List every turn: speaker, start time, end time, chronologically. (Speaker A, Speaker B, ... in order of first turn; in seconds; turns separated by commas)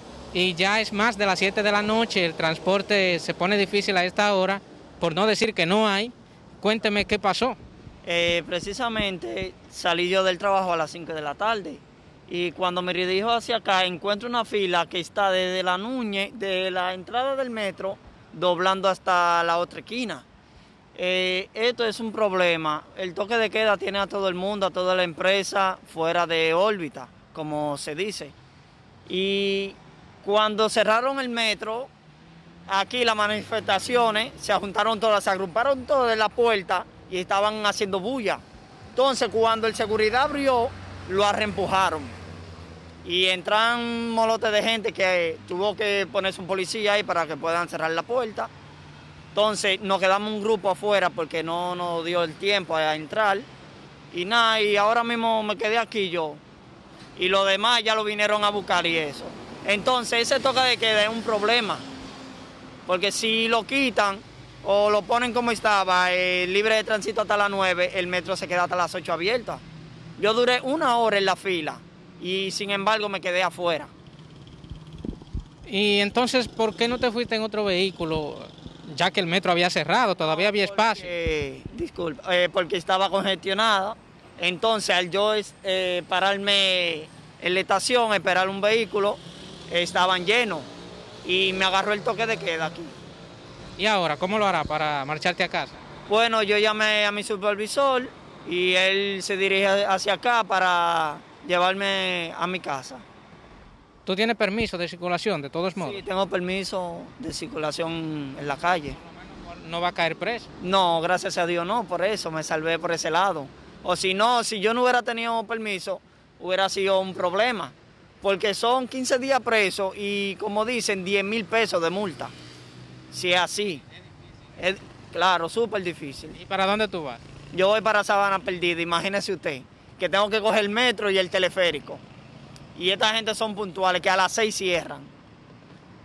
Speaker A: 0.3-7.6, Speaker B: 8.1-20.2, Speaker B: 21.0-28.3, Speaker B: 29.1-31.9, Speaker B: 32.7-38.4, Speaker B: 39.0-42.1, Speaker B: 43.0-48.5, Speaker B: 49.4-53.5, Speaker B: 54.1-56.4, Speaker B: 57.2-61.9, Speaker B: 62.9-69.6, Speaker B: 70.2-73.9, Speaker A: 75.7-81.1, Speaker B: 80.3-90.7, Speaker B: 91.2-93.0, Speaker A: 93.8-95.8, Speaker B: 96.1-103.0, Speaker A: 104.0-106.0, Speaker B: 105.8-109.0, Speaker A: 109.3-110.5, Speaker B: 110.6-122.3, Speaker B: 123.1-123.8, Speaker B: 124.6-126.4, Speaker A: 126.3-127.2, Speaker B: 127.5-132.0, Speaker B: 132.8-135.1